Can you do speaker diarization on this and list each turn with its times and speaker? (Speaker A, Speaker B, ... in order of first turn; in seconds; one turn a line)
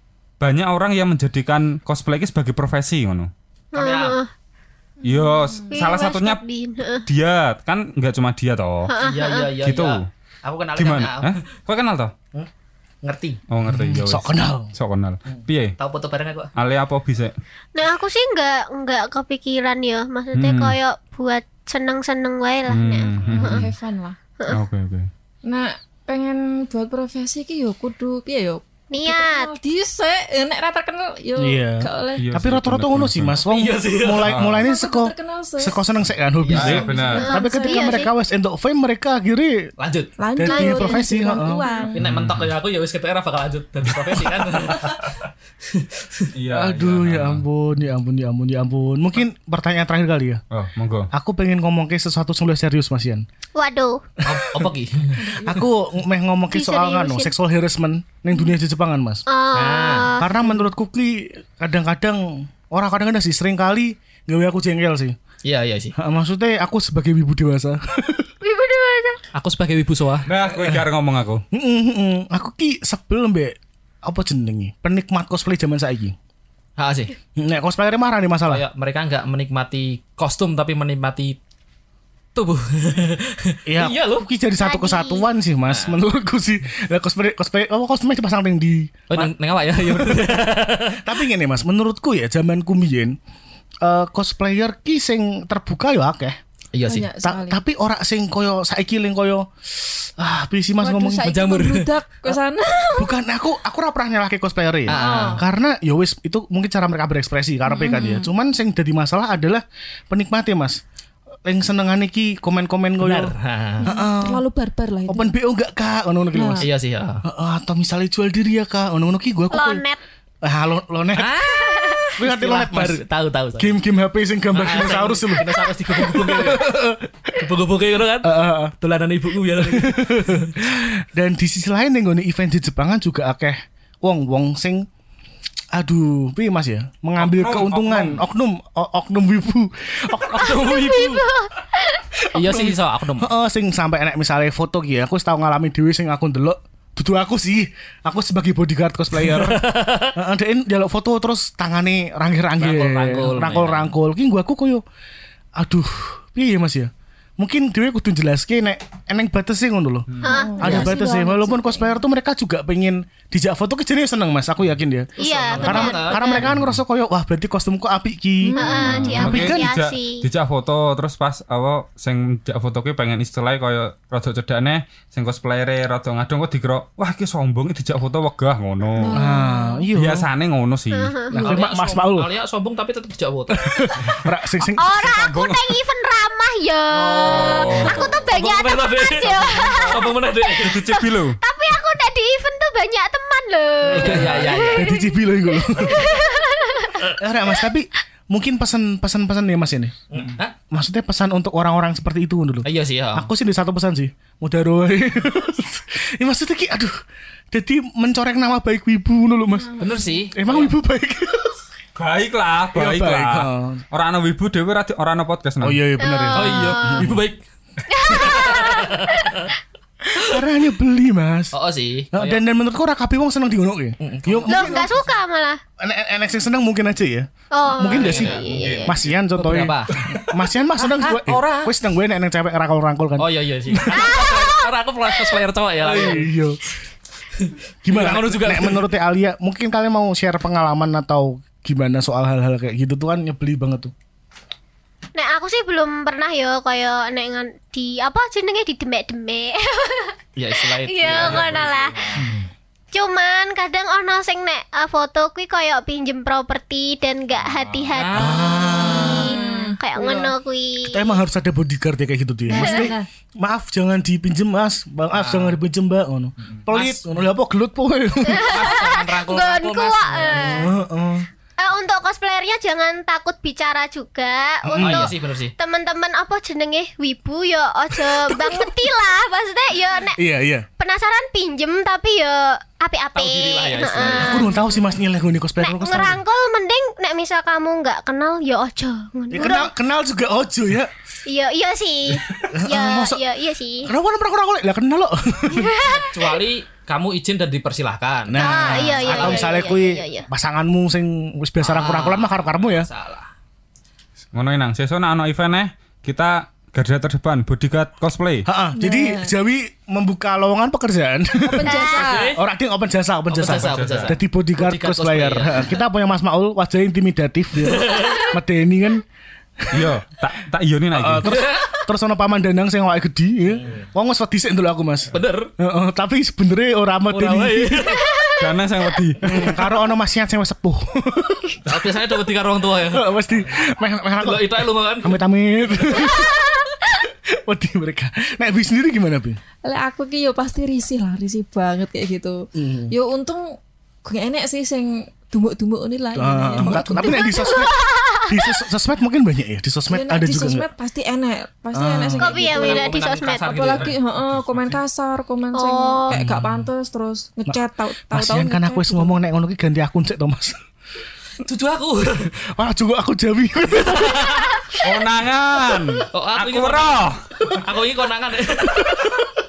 Speaker A: 0.4-3.3
Speaker B: 3.7-4.2
Speaker C: 3.7-4.3
Speaker D: 5.0-5.7
Speaker A: 5.0-6.4
Speaker C: 5.7-7.0
Speaker A: 7.0-8.9
Speaker C: 8.9-9.5
Speaker B: 9.0-11.3
Speaker A: 9.6-10.1
Speaker A: 10.8-12.1
Speaker B: 13.0-13.4
Speaker A: 13.5-15.8
Speaker E: 13.7-14.7
Speaker B: 15.3-16.5
Speaker A: 16.6-17.3
Speaker C: 17.7-23.7
Speaker A: 20.3-20.8
Speaker A: 22.7-23.7
Speaker D: 23.3-24.2
Speaker A: 24.5-25.1
Speaker D: 25.4-32.3
Speaker C: 28.9-29.5
Speaker E: 31.4-39.7
Speaker A: 32.2-33.4
Speaker B: 33.5-34.4
Speaker A: 34.1-34.7
Speaker D: 34.6-35.8
Speaker B: 36.4-37.0
Speaker A: 36.5-37.3
Speaker D: 36.8-38.1
Speaker C: 37.1-38.1
Speaker B: 39.8-40.1
Speaker D: 40.2-42.0
Speaker E: 40.4-41.7
Speaker C: 40.5-41.0
Speaker B: 41.9-46.3
Speaker A: 42.0-42.5
Speaker A: 46.3-47.4
Speaker E: 46.5-50.4
Speaker A: 50.5-51.1
Speaker E: 51.1-53.2
Speaker C: 53.5-54.0
Speaker B: 54.2-55.5
Speaker E: 54.3-54.7
Speaker D: 55.2-55.6
Speaker E: 55.4-59.2
Speaker C: 56.5-57.3
Speaker C: 59.3-60.3
Speaker B: 59.5-60.1
Speaker E: 60.2-65.2
Speaker B: 65.4-65.9
Speaker E: 66.0-68.3
Speaker C: 68.4-69.2
Speaker B: 69.3-70.3
Speaker A: 70.2-71.4
Speaker E: 71.5-76.2
Speaker B: 76.8-77.1
Speaker E: 77.3-78.6
Speaker B: 78.5-81.4
Speaker B: 82.3-84.3
Speaker E: 83.7-90.4
Speaker C: 84.6-85.3
Speaker B: 85.7-86.0
Speaker B: 89.1-91.0
Speaker E: 91.0-93.2
Speaker E: 93.8-96.4
Speaker B: 96.7-97.1
Speaker D: 96.9-97.6
Speaker E: 97.2-101.3
Speaker D: 100.8-103.2
Speaker B: 101.2-102.4
Speaker E: 103.0-110.8
Speaker B: 104.9-105.4
Speaker D: 104.9-105.4
Speaker D: 107.7-108.3
Speaker E: 111.4-114.4
Speaker B: 113.0-113.9
Speaker D: 113.8-115.3
Speaker E: 115.1-116.6
Speaker D: 116.3-116.7
Speaker B: 116.6-117.2
Speaker E: 117.2-119.8
Speaker C: 119.5-120.0
Speaker E: 120.4-121.3
Speaker B: 121.1-123.8
Speaker C: 121.5-122.0
Speaker E: 122.2-123.0
Speaker E: 123.6-127.1
Speaker B: 124.5-126.7
Speaker B: 127.3-130.5
Speaker E: 128.2-128.8
Speaker E: 129.6-134.8
Speaker E: 135.7-141.2
Speaker A: 137.2-138.2
Speaker C: 140.3-142.2
Speaker B: 140.7-141.0
Speaker E: 142.3-154.8
Speaker B: 142.3-143.3
Speaker B: 149.1-150.1
Speaker B: 152.6-153.9
Speaker E: 155.6-160.1
Speaker A: 160.1-160.4
Speaker C: 160.2-160.8
Speaker D: 160.2-162.0
Speaker B: 160.6-161.0
Speaker E: 160.6-169.7
Speaker B: 165.2-166.4
Speaker C: 165.2-166.4
Speaker A: 166.4-166.8
Speaker D: 168.4-169.2
Speaker C: 168.6-170.2
Speaker A: 168.8-179.2
Speaker D: 179.0-179.9
Speaker E: 179.1-180.3
Speaker A: 179.9-181.2
Speaker C: 180.9-181.5
Speaker E: 181.3-182.3
Speaker B: 181.3-184.0
Speaker E: 183.5-184.9
Speaker C: 184.8-197.2
Speaker A: 184.9-185.8
Speaker B: 186.9-191.0
Speaker A: 187.2-188.2
Speaker A: 189.2-191.4
Speaker B: 193.8-195.0
Speaker E: 193.9-196.1
Speaker E: 197.2-199.9
Speaker B: 200.1-200.5
Speaker E: 200.7-207.0
Speaker B: 202.6-203.3
Speaker E: 207.5-209.8
Speaker D: 209.6-210.2
Speaker B: 209.8-210.7
Speaker E: 210.3-211.6
Speaker A: 211.9-215.8
Speaker E: 212.7-213.8
Speaker E: 215.6-217.2
Speaker C: 216.0-217.1
Speaker B: 216.3-217.4
Speaker C: 217.9-219.5
Speaker B: 218.1-219.5
Speaker E: 220.1-221.5
Speaker B: 221.5-222.4
Speaker E: 222.1-225.1
Speaker B: 224.0-225.0
Speaker C: 224.4-225.6
Speaker E: 225.8-234.1
Speaker C: 227.5-228.9
Speaker B: 227.8-228.8
Speaker A: 228.3-229.1
Speaker B: 229.3-230.0
Speaker A: 229.9-230.3
Speaker B: 230.8-231.7
Speaker B: 233.2-236.3
Speaker C: 233.9-234.6
Speaker E: 235.8-236.6
Speaker B: 237.3-238.9
Speaker E: 237.8-243.9
Speaker C: 245.2-252.1
Speaker B: 250.3-252.2
Speaker A: 251.1-251.9
Speaker E: 252.2-252.4
Speaker C: 252.9-261.2
Speaker A: 257.3-258.1
Speaker B: 257.9-259.1
Speaker E: 258.1-259.4
Speaker D: 259.0-260.2
Speaker E: 260.8-268.7
Speaker D: 262.5-263.1
Speaker C: 262.6-262.9
Speaker B: 265.1-265.6
Speaker B: 266.7-267.1
Speaker C: 268.2-270.7
Speaker B: 268.3-270.7
Speaker E: 270.3-271.3
Speaker C: 271.6-280.2
Speaker E: 274.6-275.1
Speaker B: 274.8-275.5
Speaker E: 278.0-278.9
Speaker E: 280.1-280.6
Speaker C: 280.8-284.6
Speaker B: 283.1-284.5
Speaker E: 284.0-286.2
Speaker C: 285.6-289.7
Speaker E: 289.3-290.9
Speaker C: 291.2-293.9
Speaker E: 292.5-293.2
Speaker E: 293.8-295.8
Speaker C: 295.5-296.4
Speaker B: 295.8-299.8
Speaker E: 298.3-302.9
Speaker C: 298.4-300.3
Speaker B: 301.6-303.3
Speaker A: 304.3-308.4
Speaker E: 308.4-311.7
Speaker D: 308.8-309.3
Speaker D: 311.5-312.3
Speaker C: 311.6-312.1
Speaker B: 311.7-312.4
Speaker E: 312.4-319.0
Speaker B: 313.3-315.8
Speaker A: 313.4-314.1
Speaker B: 317.6-318.2
Speaker C: 317.9-318.2
Speaker E: 319.6-319.9
Speaker A: 319.7-321.3
Speaker E: 320.9-327.8
Speaker B: 321.2-321.8
Speaker B: 323.5-323.9
Speaker B: 325.1-325.5
Speaker B: 327.1-328.1
Speaker C: 327.9-328.5
Speaker A: 328.4-329.6
Speaker E: 329.2-331.6
Speaker B: 331.6-333.7
Speaker E: 332.9-336.4
Speaker B: 334.2-335.2
Speaker C: 335.9-336.6
Speaker E: 337.0-339.4
Speaker D: 339.6-347.7
Speaker E: 342.6-342.9
Speaker E: 346.1-350.6
Speaker C: 347.1-348.5
Speaker D: 349.9-359.1
Speaker E: 351.7-352.3
Speaker C: 352.1-353.8
Speaker B: 352.2-353.9
Speaker A: 353.8-354.8
Speaker C: 355.6-356.1
Speaker E: 356.1-356.4
Speaker E: 357.5-360.6
Speaker B: 361.4-362.3
Speaker E: 362.4-364.5
Speaker B: 363.7-364.6
Speaker A: 364.8-367.2
Speaker B: 366.1-369.2
Speaker E: 368.8-369.3